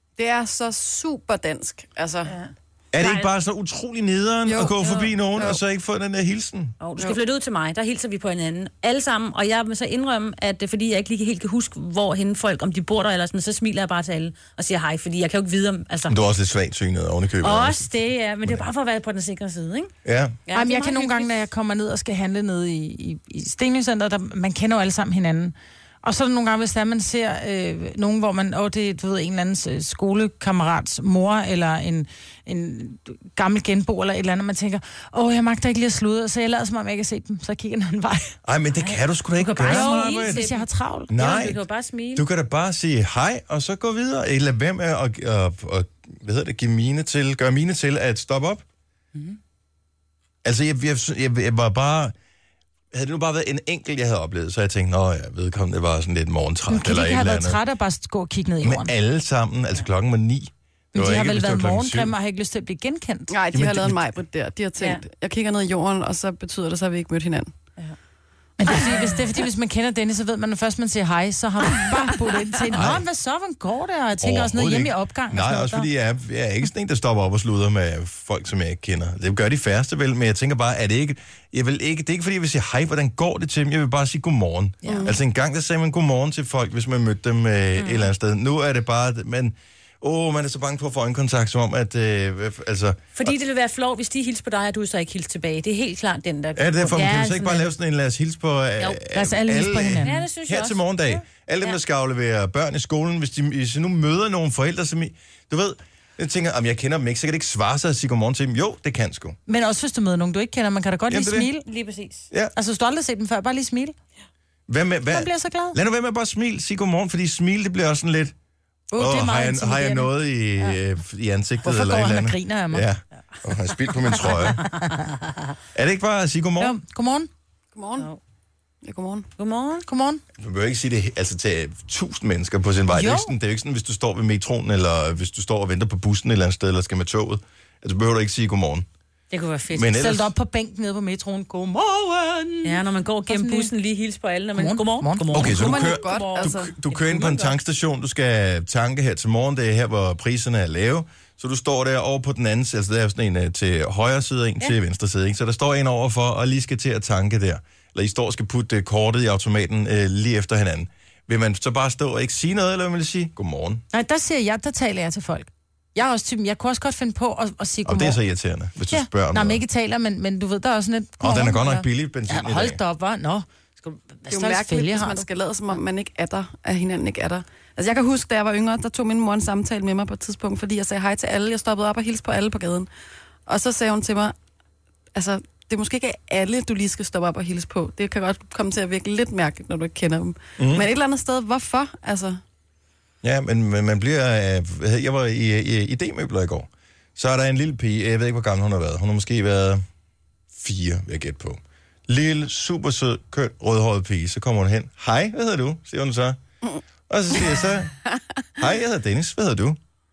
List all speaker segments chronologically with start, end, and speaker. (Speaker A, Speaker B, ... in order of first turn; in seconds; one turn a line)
Speaker A: 0.2-2.3
Speaker B: 2.2-3.3
Speaker C: 2.9-6.8
Speaker A: 4.5-4.8
Speaker B: 4.8-5.1
Speaker B: 6.8-16.2
Speaker C: 16.1-17.9
Speaker B: 17.4-19.9
Speaker C: 20.0-20.4
Speaker B: 20.5-21.3
Speaker D: 20.5-38.4
Speaker C: 38.4-40.5
Speaker B: 38.8-42.3
Speaker D: 39.6-41.1
Speaker C: 41.1-41.6
Speaker C: 42.1-48.6
Speaker C: 50.4-52.1
Speaker C: 52.9-57.6
Speaker D: 56.7-58.9
Speaker C: 58.6-62.1
Speaker D: 60.9-63.4
Speaker A: 63.3-67.5
Speaker C: 63.5-64.1
Speaker D: 68.6-75.9
Speaker C: 72.7-73.0
Speaker C: 74.2-93.3
Speaker A: 84.9-85.2
Speaker B: 87.8-88.1
Speaker B: 93.1-97.7
Speaker C: 96.5-109.4
Speaker D: 99.1-100.2
Speaker B: 100.0-101.8
Speaker D: 109.5-111.6
Speaker C: 111.1-111.5
Speaker B: 111.6-112.3
Speaker D: 112.5-113.9
Speaker C: 114.7-118.3
Speaker D: 115.1-115.8
Speaker D: 118.9-120.8
Speaker C: 119.0-124.7
Speaker D: 121.6-122.9
Speaker D: 124.6-125.0
Speaker C: 125.7-126.8
Speaker D: 126.6-127.3
Speaker A: 127.7-128.1
Speaker A: 128.8-129.3
Speaker B: 129.4-129.8
Speaker D: 129.9-130.2
Speaker C: 130.3-138.9
Speaker D: 132.9-133.3
Speaker B: 139.3-139.9
Speaker C: 139.7-140.3
Speaker D: 139.8-143.7
Speaker B: 142.6-147.6
Speaker D: 144.6-145.3
Speaker C: 145.3-163.8
Speaker A: 145.3-146.7
Speaker D: 163.9-168.2
Speaker C: 167.8-169.6
Speaker D: 168.9-175.2
Speaker C: 171.2-172.8
Speaker A: 174.3-182.9
Speaker A: 183.5-184.3
Speaker A: 185.1-192.4
Speaker C: 190.6-190.9
Speaker C: 193.2-199.8
Speaker C: 200.5-206.4
Speaker C: 207.1-207.9
Speaker C: 208.6-209.8